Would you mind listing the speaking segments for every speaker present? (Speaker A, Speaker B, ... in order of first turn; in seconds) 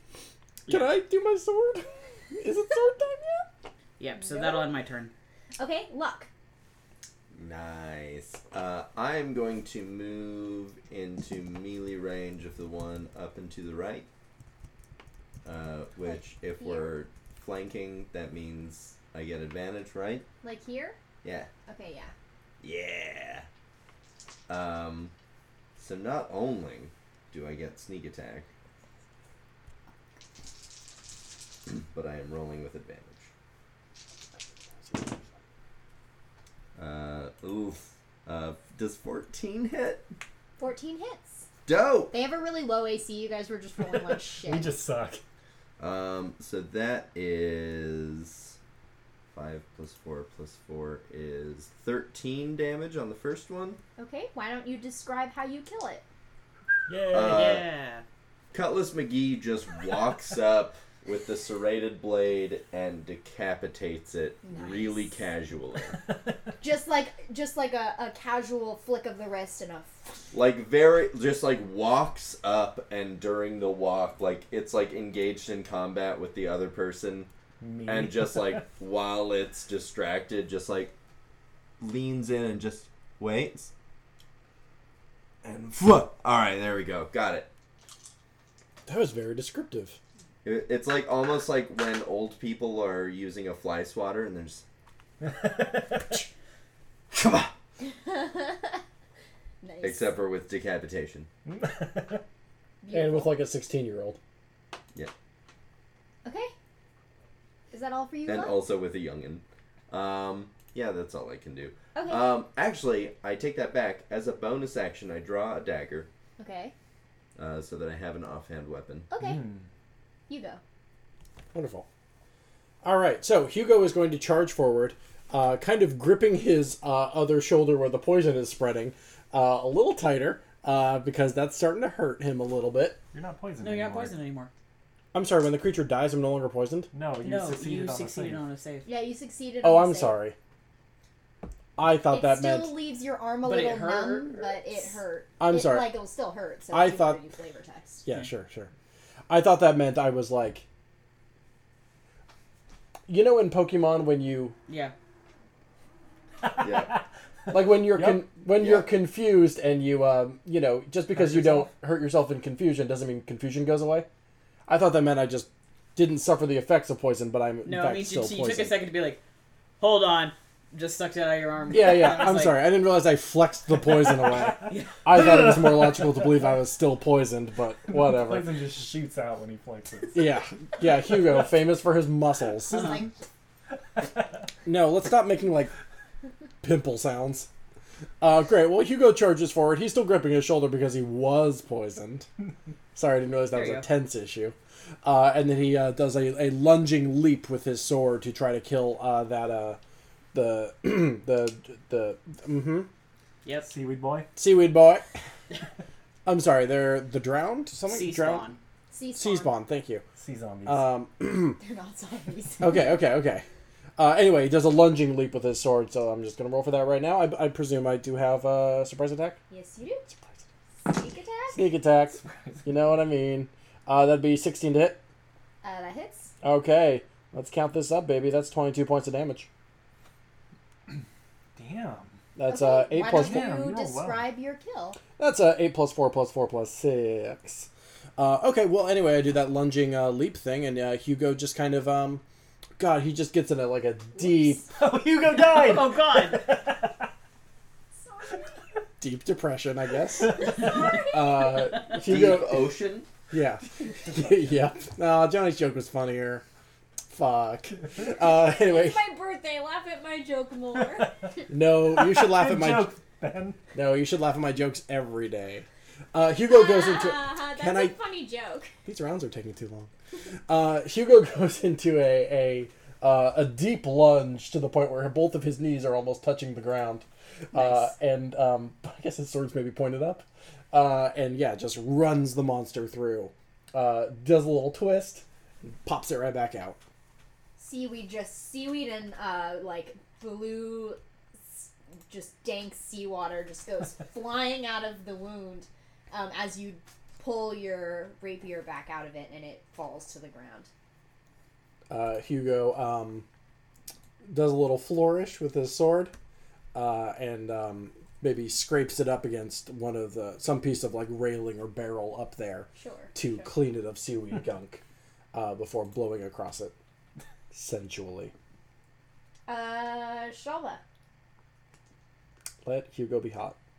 Speaker A: 0.7-3.5, 85.4-85.8, 88.8-90.0, 102.9-104.2, 121.5-121.9, 122.8-133.0, 135.1-136.9, 139.6-140.3, 141.8-142.7, 145.4-146.0, 146.7-147.2, 148.0-148.7, 149.3-150.6, 153.1-154.6, 157.5-164.1, 164.7-168.8, 171.7-178.5, 180.1-183.0, 184.6-185.7, 186.6-187.5, 188.2-192.3, 192.9-199.8, 200.3-202.9, 204.3-205.1, 206.2-208.4, 209.1-210.0, 210.7-211.6, 212.6-213.4, 214.0-219.4, 221.5-225.0, 226.4-229.5, 232.3-233.5, 235.2-242.2, 242.8-244.6, 249.0-252.7, 253.3-256.4, 257.1-259.0, 261.5-262.9, 263.7-267.9, 268.9-269.9, 270.5-286.8, 301.9-303.2, 304.2-306.1, 306.7-314.8, 315.3-316.7, 317.5-318.3, 322.6-323.6
Speaker B: 4.0-5.1, 57.1-58.0, 133.6-134.5, 137.2-138.9, 143.4-144.5, 154.7-154.9, 167.6-169.2, 169.8-172.7, 174.6-175.0, 193.5-193.9, 203.4-203.7, 207.9-208.6, 245.3-246.5
Speaker C: 4.2-4.7, 5.6-6.3, 16.1-16.9, 20.4-21.0, 21.7-22.1, 40.6-41.5, 42.1-44.7, 54.0-56.0, 64.4-65.2, 66.6-70.2, 97.8-98.8, 99.6-100.1, 102.8-103.3, 106.2-106.5, 107.7-108.6, 111.9-112.3, 116.4-116.7, 119.1-119.4, 120.3-120.6, 138.8-140.2, 142.1-148.0, 208.9-209.6, 211.6-212.8, 219.5-220.2, 220.8-221.7, 225.6-226.3, 232.5-235.0, 244.2-244.7, 247.9-248.6, 250.3-251.7, 258.3-261.2, 266.4-268.7, 277.5-277.9, 287.6-300.7, 312.8-313.5, 319.5-320.8
Speaker D: 7.3-14.1, 15.4-20.3, 21.2-21.5, 22.6-23.5, 24.5-25.1, 25.8-28.5, 31.7-33.3, 36.8-40.1, 41.6-42.1, 45.8-48.6, 49.3-53.8, 57.1-57.7, 58.5-66.0, 70.3-77.3, 77.8-80.9, 81.8-83.7, 85.7-87.5, 90.4-94.6, 97.1-97.5, 99.8-101.3, 108.3-116.1, 117.3-119.1, 156.6-156.9, 158.6-158.9, 251.9-253.1
Speaker E: 44.3-45.2, 56.9-57.6, 77.6-78.6, 95.2-96.0, 101.5-102.2, 119.2-119.7, 133.1-134.2, 136.9-138.4, 156.4-157.0, 157.9-158.2, 161.1-161.7, 174.3-174.5, 175.1-176.1, 177.9-180.4, 203.7-204.3, 210.2-210.8, 222.2-223.0, 231.6-232.2, 233.1-234.3, 244.7-247.1, 262.0-263.6